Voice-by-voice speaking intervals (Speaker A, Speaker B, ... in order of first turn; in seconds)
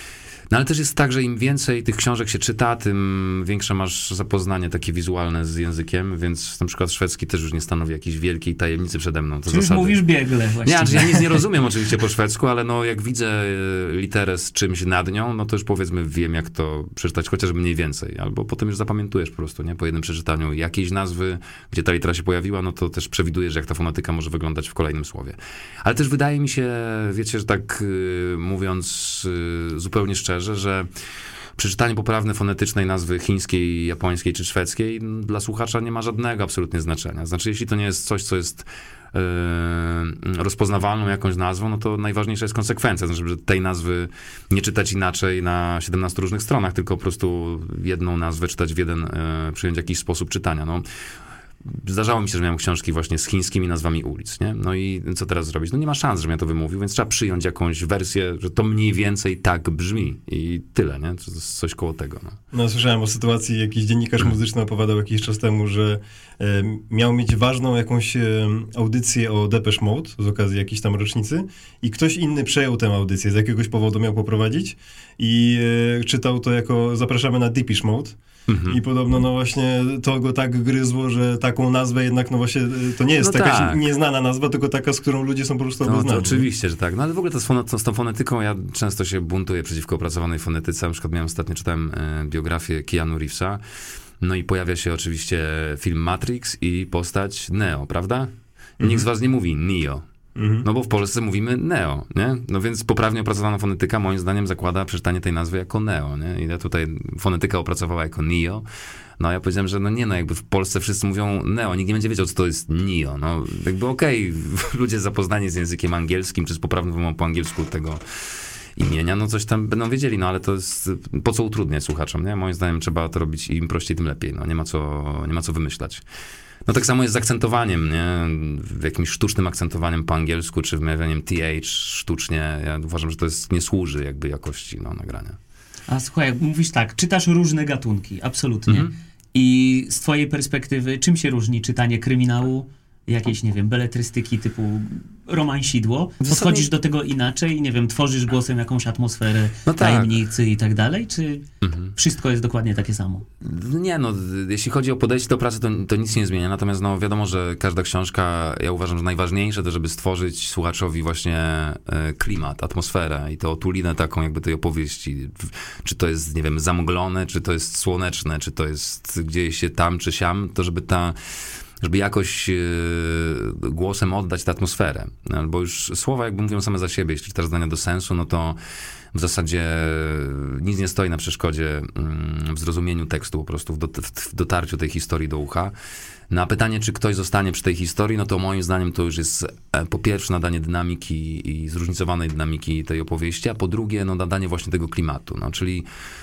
Speaker A: 0.5-10.0, 10.6-30.9, 31.6-50.9, 51.6-62.4, 78.5-78.8, 83.2-83.8, 85.8-93.6, 94.2-100.0, 100.6-108.7, 109.2-126.0, 126.7-135.4, 138.7-138.9, 146.2-146.7, 149.7-150.2, 151.6-151.9, 153.4-178.6, 179.1-185.7, 186.3-195.9
Speaker B: 9.5-11.3, 135.9-153.2
Speaker C: 62.5-78.2, 78.7-86.5, 98.8-99.0, 100.3-100.7